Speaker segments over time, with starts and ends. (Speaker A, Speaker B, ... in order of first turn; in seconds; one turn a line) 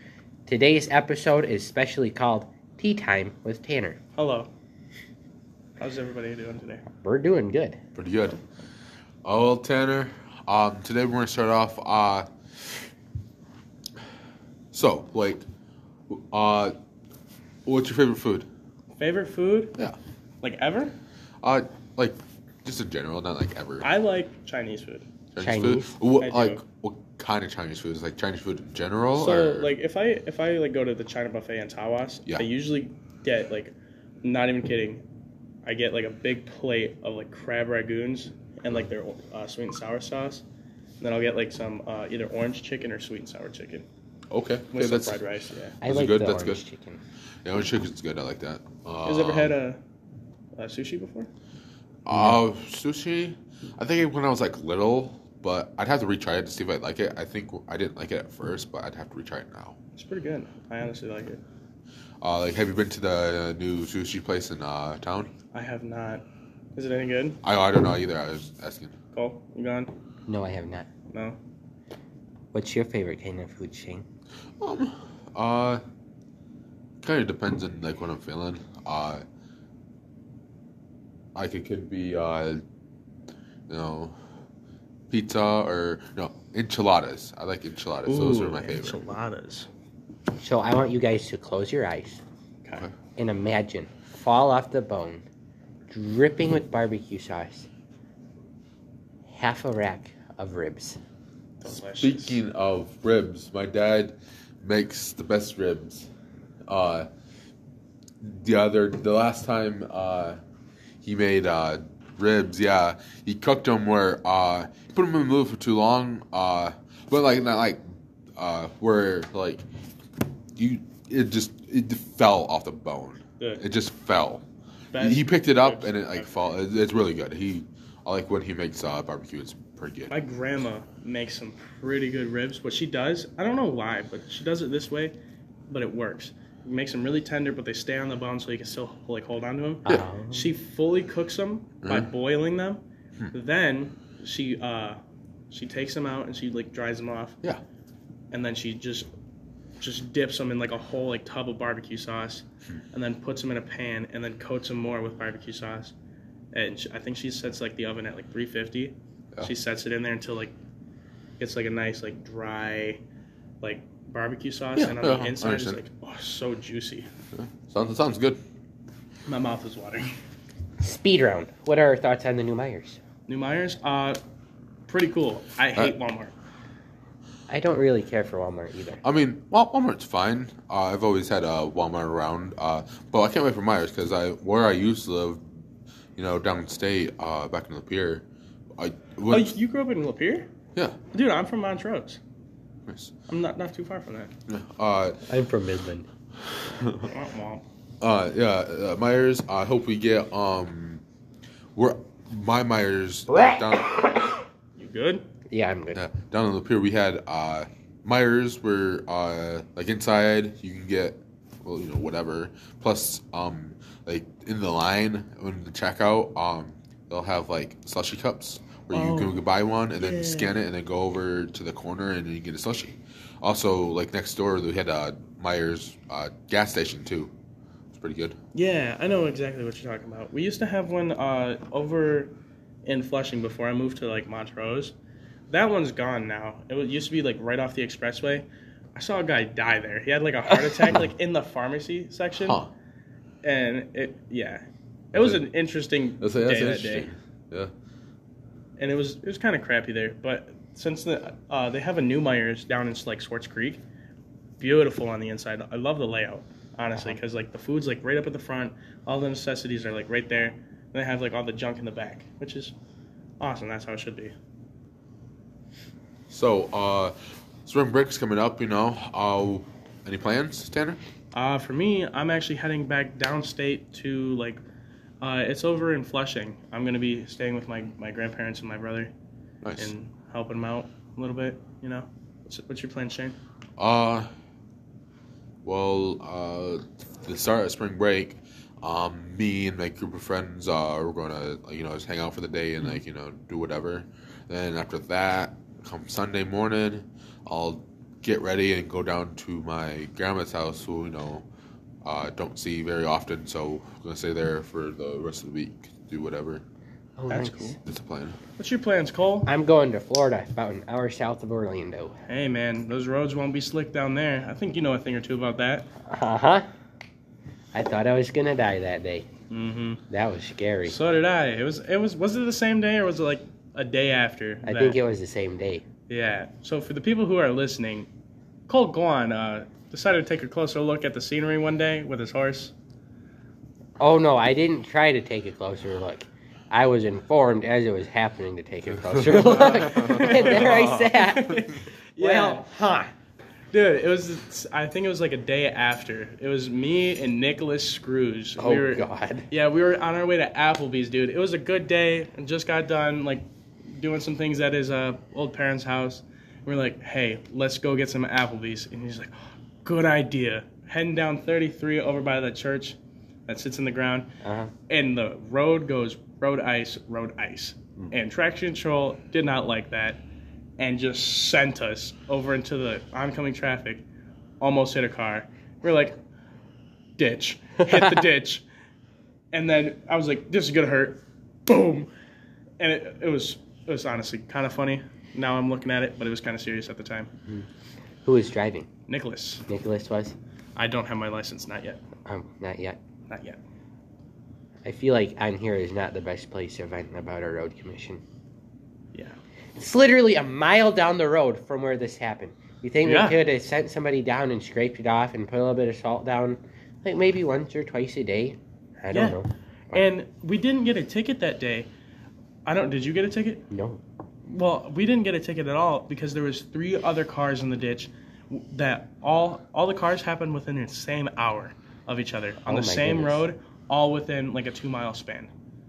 Speaker A: 0.5-4.0
Speaker B: 4.2-4.5
Speaker B: 5.8-6.8
Speaker A: 6.9-7.8
Speaker C: 7.9-8.4
Speaker C: 9.2-12.3
Speaker C: 14.7-15.4
Speaker C: 16.1-16.7
Speaker C: 17.6-18.5
Speaker B: 19.0-19.8
Speaker B: 20.4-20.9
Speaker C: 21.4-23.9
Speaker B: 23.8-25.1
Speaker C: 25.3-29.7
Speaker A: 25.4-25.9
Speaker B: 26.2-26.6
Speaker B: 29.1-35.0
Speaker B: 35.6-40.4
Speaker B: 41.0-43.9
Speaker C: 44.3-45.2
Speaker B: 44.7-45.8
Speaker A: 45.8-47.0
Speaker C: 45.8-46.6
Speaker C: 47.4-49.6
Speaker B: 49.0-49.8
Speaker B: 50.5-51.3
Speaker C: 52.0-59.8
Speaker A: 52.1-52.4
Speaker B: 59.9-61.4
Speaker C: 62.2-65.3
Speaker B: 65.5-66.2
Speaker B: 66.7-67.4
Speaker C: 67.4-68.9
Speaker B: 69.1-69.9
Speaker A: 70.3-70.9
Speaker B: 71.1-71.4
Speaker A: 72.5-74.0
Speaker C: 74.6-75.8
Speaker C: 77.0-79.2
Speaker C: 81.3-82.6
Speaker C: 83.7-84.1
Speaker C: 85.1-89.0
Speaker B: 88.0-89.7
Speaker A: 90.4-92.2
Speaker A: 93.2-95.2
Speaker A: 95.9-97.7
Speaker A: 99.3-101.0
Speaker B: 101.6-102.4
Speaker C: 101.7-106.1
Speaker C: 106.7-107.1
Speaker C: 108.2-110.4
Speaker C: 111.0-117.8
Speaker C: 118.3-119.6
Speaker C: 120.6-130.1
Speaker B: 124.9-126.3
Speaker B: 130.1-135.1
Speaker B: 135.7-145.0
Speaker A: 139.8-140.5
Speaker C: 141.8-142.1
Speaker B: 145.5-147.4
Speaker B: 148.3-149.1
Speaker B: 149.8-155.9
Speaker B: 156.5-160.5
Speaker B: 161.4-163.0
Speaker B: 163.6-167.1
Speaker C: 164.8-165.8
Speaker C: 167.3-168.4
Speaker B: 169.3-170.1
Speaker A: 170.8-173.0
Speaker B: 173.3-174.2
Speaker B: 174.9-176.3
Speaker A: 177.5-179.0
Speaker C: 179.0-185.4
Speaker C: 186.2-188.2
Speaker C: 188.8-189.6
Speaker B: 189.3-190.5
Speaker B: 191.1-192.2
Speaker C: 192.9-193.1
Speaker B: 193.3-194.3
Speaker C: 194.5-195.2
Speaker A: 195.3-196.1
Speaker C: 196.5-197.1
Speaker B: 197.0-197.6
Speaker C: 198.0-201.0
Speaker C: 201.8-204.3
Speaker B: 204.8-205.2
Speaker A: 205.5-206.0
Speaker C: 205.9-227.3
Speaker B: 218.9-219.4
Speaker B: 219.9-220.6
Speaker C: 227.9-228.4
Speaker B: 228.5-232.3
Speaker B: 232.8-234.9
Speaker B: 235.5-242.6
Speaker C: 242.3-242.7
Speaker B: 243.4-247.1
Speaker C: 245.1-245.4
Speaker C: 246.2-247.7
Speaker B: 248.8-253.8
Speaker B: 254.6-262.7
Speaker B: 263.4-264.3
Speaker C: 266.3-271.0
Speaker B: 271.3-274.6
Speaker B: 275.2-279.1
Speaker C: 279.6-279.9
Speaker B: 279.8-283.4
Speaker C: 283.8-284.3
Speaker C: 285.6-301.4
Speaker C: 302.0-306.6
Speaker A: 307.2-307.7
Speaker B: 307.3-307.8
Speaker C: 307.9-308.4
Speaker B: 308.6-309.5
Speaker A: 309.4-312.1
Speaker B: 312.3-315.9
Speaker A: 316.1-316.6
Speaker A: 317.7-319.3
Speaker B: 319.5-320.0
Speaker A: 320.1-321.0
Speaker B: 320.9-325.0
Speaker A: 324.6-325.8
Speaker B: 326.1-328.1
Speaker B: 328.7-332.7
Speaker A: 334.0-341.6
Speaker C: 339.3-340.9
Speaker B: 339.3-342.6
Speaker A: 342.2-343.1
Speaker B: 343.7-359.3
Speaker A: 348.6-349.5
Speaker B: 359.8-362.9
Speaker B: 363.5-364.3
Speaker A: 364.4-364.7
Speaker B: 364.9-370.2
Speaker B: 370.8-374.0
Speaker B: 374.6-376.2
Speaker B: 377.2-378.6
Speaker B: 379.5-382.1
Speaker B: 382.8-387.3
Speaker A: 388.2-388.9
Speaker B: 389.1-389.6
Speaker A: 389.7-390.3
Speaker B: 390.8-392.0
Speaker A: 392.2-393.0
Speaker B: 393.3-393.6
Speaker A: 394.8-398.2
Speaker A: 399.8-410.1
Speaker B: 403.0-403.4
Speaker B: 409.1-409.4
Speaker B: 409.9-411.9
Speaker B: 412.6-413.7
Speaker A: 413.7-414.0
Speaker B: 414.4-425.5
Speaker A: 422.7-423.4